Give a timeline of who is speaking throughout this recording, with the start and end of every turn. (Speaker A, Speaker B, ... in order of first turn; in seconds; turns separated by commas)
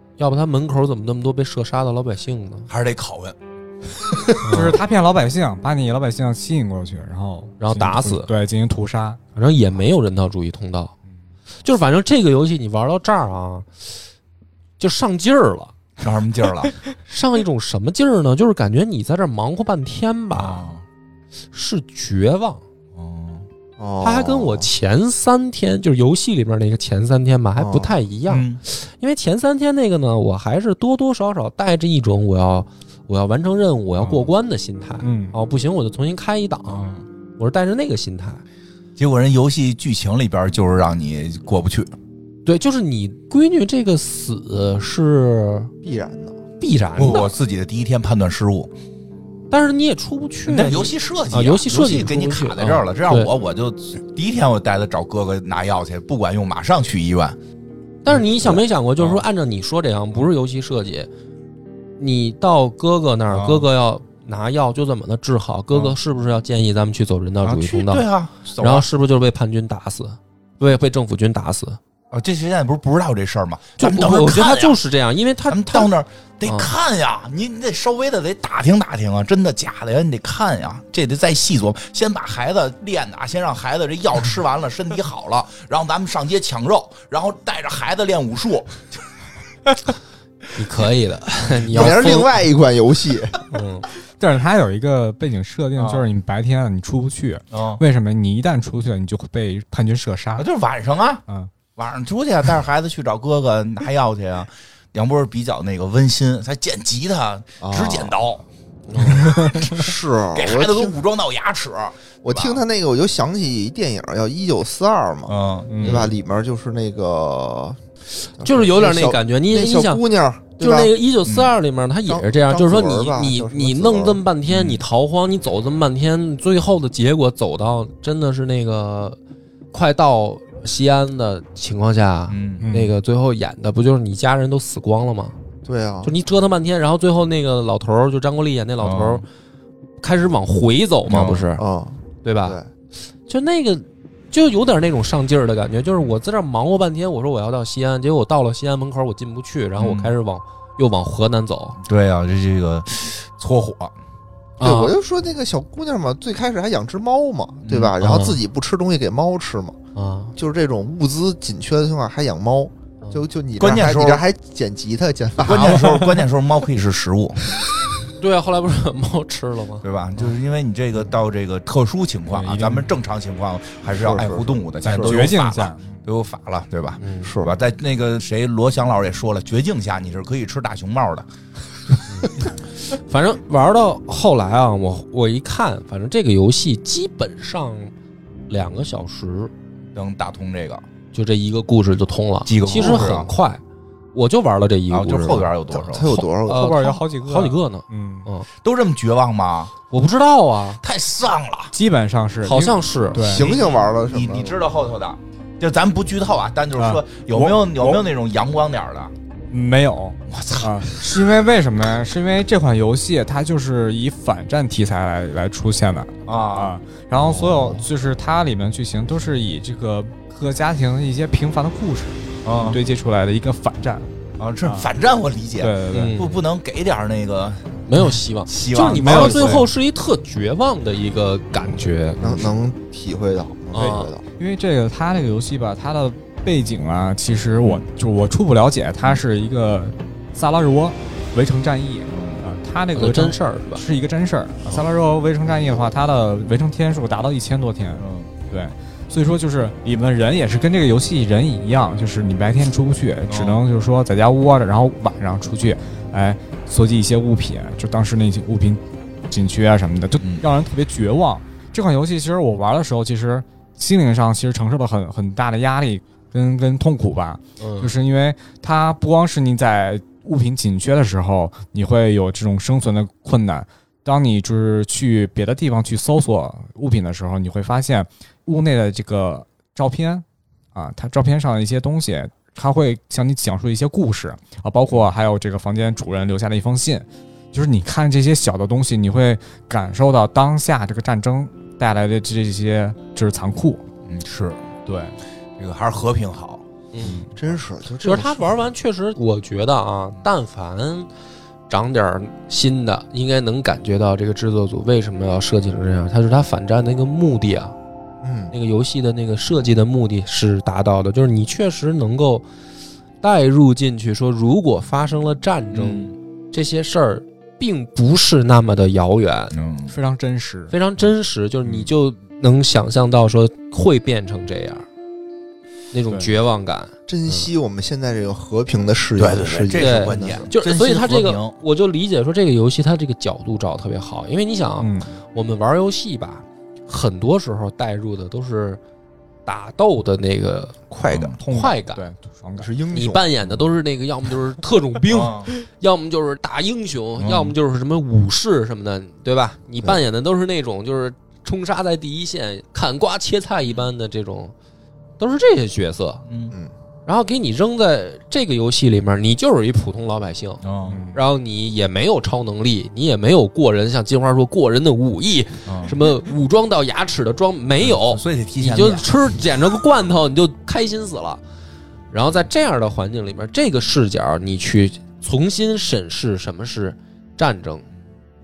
Speaker A: 0.2-2.7, Speaker B: 2.7-3.4, Speaker A: 4.4-4.8, Speaker C: 4.5-9.2, Speaker A: 7.6-8.3, Speaker A: 9.3-10.9, Speaker A: 11.6-13.7, Speaker A: 14.8-15.7, Speaker B: 16.0-16.7, Speaker A: 17.0-20.6, Speaker B: 20.3-20.8, Speaker A: 21.5-22.6, Speaker B: 22.9-23.4, Speaker D: 23.8-24.7, Speaker A: 24.0-36.8, Speaker D: 27.6-27.9, Speaker B: 28.3-28.6, Speaker B: 34.0-34.3, Speaker C: 35.0-35.3, Speaker B: 36.7-37.0, Speaker A: 37.4-38.4, Speaker B: 39.0-41.9, Speaker A: 42.5-45.7, Speaker D: 45.8-46.4, Speaker A: 46.6-47.3, Speaker B: 47.0-48.7, Speaker A: 49.5-53.3, Speaker B: 50.5-57.4, Speaker A: 58.0-61.1, Speaker B: 58.4-59.2, Speaker A: 62.0-68.0, Speaker B: 63.3-63.7, Speaker B: 67.4-68.9, Speaker A: 68.6-71.8, Speaker B: 72.1-74.8, Speaker A: 73.8-75.9, Speaker B: 75.5-89.0, Speaker A: 76.4-76.7, Speaker A: 90.5-92.3, Speaker D: 91.7-93.4, Speaker A: 93.5-93.9, Speaker C: 94.2-100.4, Speaker B: 95.8-96.1, Speaker B: 97.5-97.8, Speaker B: 100.4-101.2, Speaker B: 101.8-108.4, Speaker D: 107.6-108.2, Speaker A: 108.9-109.3, Speaker B: 109.3-109.8, Speaker D: 109.3-111.0, Speaker B: 110.3-112.6, Speaker D: 112.2-117.8, Speaker B: 115.3-115.8, Speaker C: 115.7-116.0, Speaker A: 115.8-116.1, Speaker D: 118.4-120.9, Speaker A: 118.4-120.0, Speaker A: 120.6-129.2, Speaker B: 121.2-121.5, Speaker D: 122.1-124.2, Speaker B: 124.5-124.8, Speaker A: 129.7-135.3, Speaker B: 132.3-132.7, Speaker C: 132.6-132.9, Speaker D: 135.6-136.1, Speaker A: 136.0-139.2, Speaker B: 138.8-139.2, Speaker A: 140.0-141.6, Speaker B: 141.1-141.5, Speaker D: 141.6-142.7, Speaker A: 142.2-142.6, Speaker A: 143.3-151.8, Speaker B: 149.8-150.1, Speaker B: 151.8-153.9, Speaker A: 154.6-154.9, Speaker D: 154.6-159.8, Speaker B: 157.6-157.9, Speaker A: 158.0-158.4, Speaker A: 159.9-160.3, Speaker D: 160.3-166.2, Speaker B: 163.6-164.2, Speaker B: 165.4-167.5, Speaker A: 168.2-169.8, Speaker B: 169.8-181.2, Speaker C: 172.3-172.9, Speaker D: 173.9-175.2, Speaker C: 174.2-176.0, Speaker A: 177.0-177.3, Speaker D: 177.2-177.6, Speaker A: 182.1-187.9, Speaker A: 188.5-189.5, Speaker B: 189.9-190.8, Speaker A: 191.1-193.6, Speaker B: 192.4-193.3, Speaker A: 194.1-195.5, Speaker B: 194.9-196.1, Speaker D: 195.7-196.9, Speaker A: 196.1-198.5, Speaker C: 196.4-198.3, Speaker B: 198.6-199.7, Speaker A: 199.9-200.8, Speaker B: 200.8-201.7, Speaker C: 201.7-203.5, Speaker A: 202.4-203.3, Speaker D: 203.2-204.6, Speaker B: 203.3-209.1, Speaker C: 206.7-208.1, Speaker C: 209.5-224.1, Speaker B: 210.3-211.0, Speaker B: 216.2-216.7, Speaker D: 217.2-217.8, Speaker B: 222.4-222.8, Speaker B: 224.4-227.8, Speaker C: 224.6-224.9, Speaker C: 225.6-226.2, Speaker A: 225.9-226.4, Speaker A: 227.9-232.2, Speaker B: 228.5-229.7, Speaker C: 228.9-229.7, Speaker D: 232.2-234.2, Speaker A: 233.7-234.1, Speaker C: 233.8-293.8, Speaker B: 237.6-237.8, Speaker B: 242.1-242.4, Speaker A: 242.9-243.8, Speaker B: 248.0-248.3, Speaker B: 253.3-253.6, Speaker B: 260.2-260.4, Speaker A: 267.6-267.9, Speaker B: 294.1-296.6, Speaker A: 296.9-297.2, Speaker C: 297.0-297.3, Speaker D: 297.3-298.5, Speaker A: 298.0-301.1, Speaker A: 301.7-307.7, Speaker D: 308.2-308.5, Speaker A: 308.5-312.4, Speaker A: 313.2-319.5, Speaker B: 315.7-316.1, Speaker B: 319.5-319.9, Speaker C: 319.9-320.7, Speaker A: 320.7-324.9, Speaker A: 325.9-327.5, Speaker D: 327.1-330.5, Speaker B: 329.2-331.6, Speaker A: 329.8-338.8, Speaker C: 334.8-335.1, Speaker A: 339.4-340.8, Speaker D: 340.9-341.4, Speaker B: 341.1-341.3, Speaker C: 341.4-342.8, Speaker A: 341.4-342.0, Speaker D: 342.6-343.3, Speaker A: 342.9-354.5, Speaker B: 345.1-345.5, Speaker B: 347.2-347.5, Speaker A: 355.2-356.2, Speaker B: 356.3-356.5, Speaker A: 357.1-360.6, Speaker B: 360.6-361.0, Speaker C: 360.8-361.2, Speaker A: 361.1-371.4, Speaker B: 365.6-365.9, Speaker B: 367.8-369.1, Speaker A: 372.1-377.8